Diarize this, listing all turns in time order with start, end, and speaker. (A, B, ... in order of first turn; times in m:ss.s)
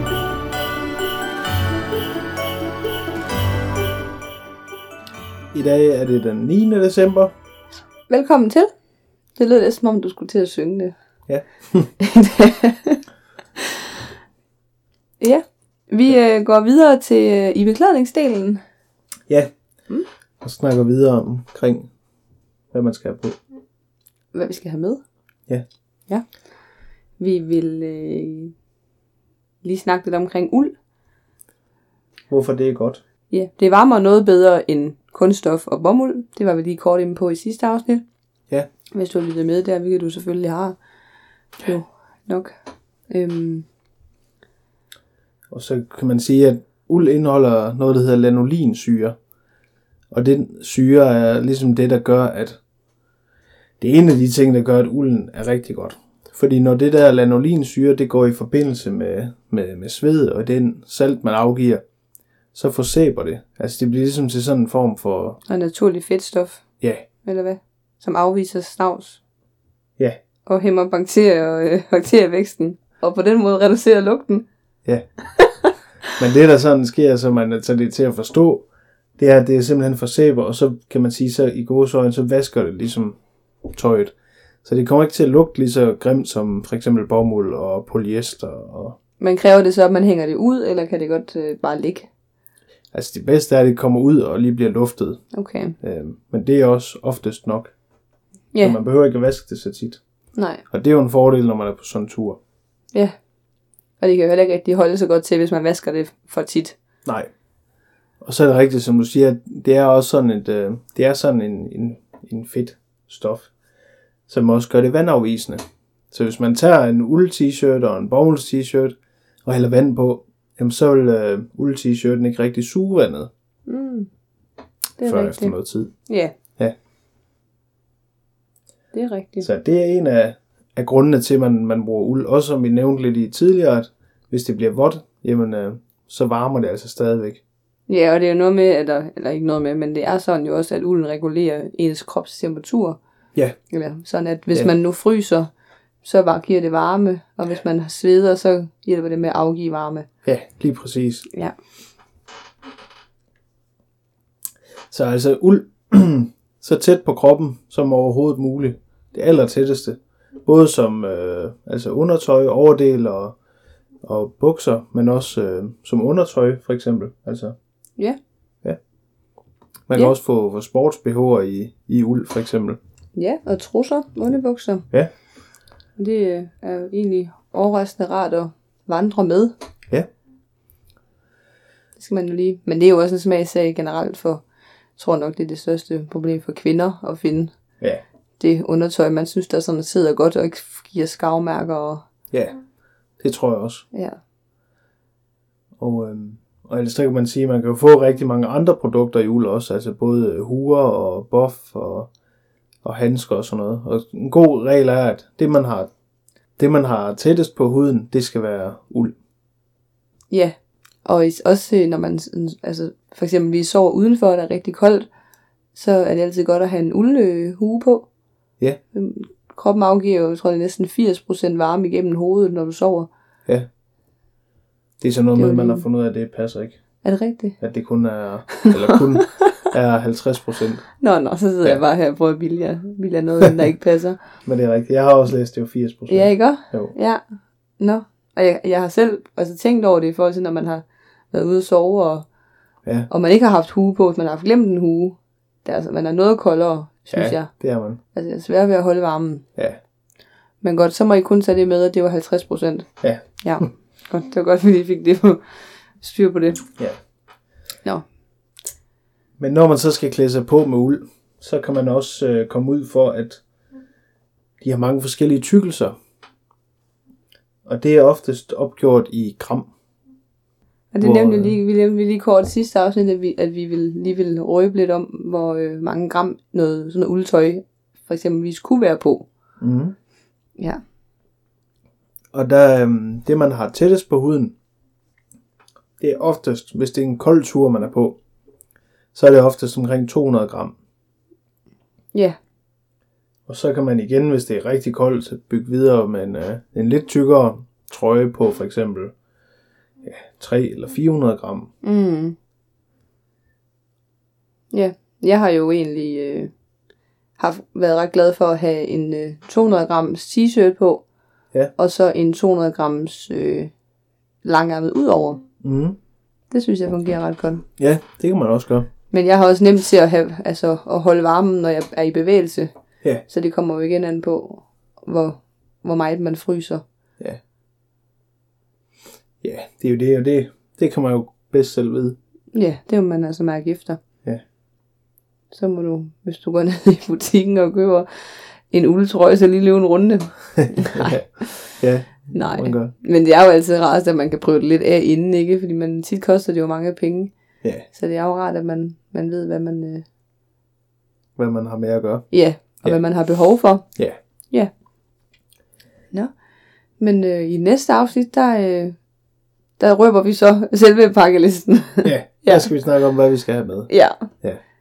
0:05.5-0:07.3 A
0:08.1-0:08.7 B
0:09.4-0:10.9 B
0:11.3-0:11.9 A
0:12.0-0:13.0 B
0:15.2-0:18.6 B
0:20.4-0:21.9 A
0:22.7-0:23.4 A
0:24.3-0:25.0 B
0:27.2-0:28.5 B
0:29.6-0:30.7 B
0:32.3-0:33.0 A
0:33.3-0:38.0 B
0:38.9-0:40.8 B
0:41.6-0:42.5 B
0:43.1-0:43.6 B
0:45.5-0:49.2 A
0:50.1-0:52.6 A
0:53.8-1:01.8 A
1:02.5-1:05.4 A
1:05.5-1:06.6 B
1:06.8-1:07.1 A
1:07.2-1:09.2 B
1:10.4-1:14.4 B
1:16.2-1:18.6 A
1:19.2-1:29.0 A
1:29.2-1:32.1 B
1:32.9-1:35.2 A
1:35.3-1:35.8 B
1:35.8-1:37.7 A
1:38.6-1:40.0 A
1:40.4-1:40.6 B
1:40.7-1:42.4 A
1:44.0-1:46.8 B
1:48.2-1:53.5 A
1:54.3-2:03.3 A
2:03.7-2:04.1 B
2:05.0-2:05.5 B
2:05.0-2:05.9 A
2:06.1-2:06.3 B
2:08.9-2:09.5 B
2:09.4-2:17.4 A
2:17.9-2:23.0 B
2:23.7-2:25.5 B
2:26.0-2:30.1 B
2:30.2-2:31.3 A
2:34.9-2:43.4 A
2:44.0-2:47.5 A
2:49.9-2:52.8 A
2:53.1-2:54.8 B
2:56.0-2:59.5 B
3:02.0-3:04.4 B
3:05.0-3:07.5 B
3:08.4-3:12.0 B
3:12.3-3:12.6 A
3:13.2-3:13.8 A
3:13.9-3:14.2 B
3:15.8-3:22.1 A
3:22.8-3:25.9 A
3:26.6-3:29.1 A
3:30.3-3:35.1 B
3:35.7-3:38.1 B
3:38.9-3:43.1 B
3:45.0-3:46.8 A
3:45.3-3:45.8 B
3:47.0-3:47.6 B
3:47.6-3:50.9 A
3:51.0-3:54.2 B
3:54.4-3:56.9 A
3:56.1-3:57.2 B
3:57.8-4:02.2 B
4:03.1-4:07.5 B
4:07.1-4:08.0 A
4:08.1-4:09.4 B
4:10.6-4:12.9 B
4:13.4-4:15.4 B
4:16.0-4:16.6 B
4:19.4-4:23.4 A
4:24.6-4:25.9 A
4:27.6-4:29.7 A
4:30.9-4:39.3 B
4:31.0-4:31.6 A
4:39.6-4:39.9 A
4:42.3-4:44.5 A
4:46.0-4:48.2 A
4:49.1-4:50.7 A
4:53.5-4:59.1 A
5:00.0-5:01.7 A
5:01.8-5:02.3 B
5:04.7-5:06.5 B
5:07.4-5:11.0 B
5:11.8-5:13.7 B
5:14.4-5:15.4 B
5:15.6-5:16.0 A
5:16.5-5:17.6 B
5:17.8-5:18.9 A
5:19.1-5:22.7 B
5:23.3-5:26.8 B
5:29.4-5:32.2 A
5:32.5-5:34.0 B
5:35.5-5:41.7 B
5:40.8-5:42.9 A
5:42.3-5:47.3 B
5:47.9-5:50.0 B
5:51.4-5:52.2 A
5:52.3-5:53.8 B
5:57.0-5:59.0 B
5:59.8-6:02.7 B
6:02.0-6:03.9 A
6:03.9-6:04.3 B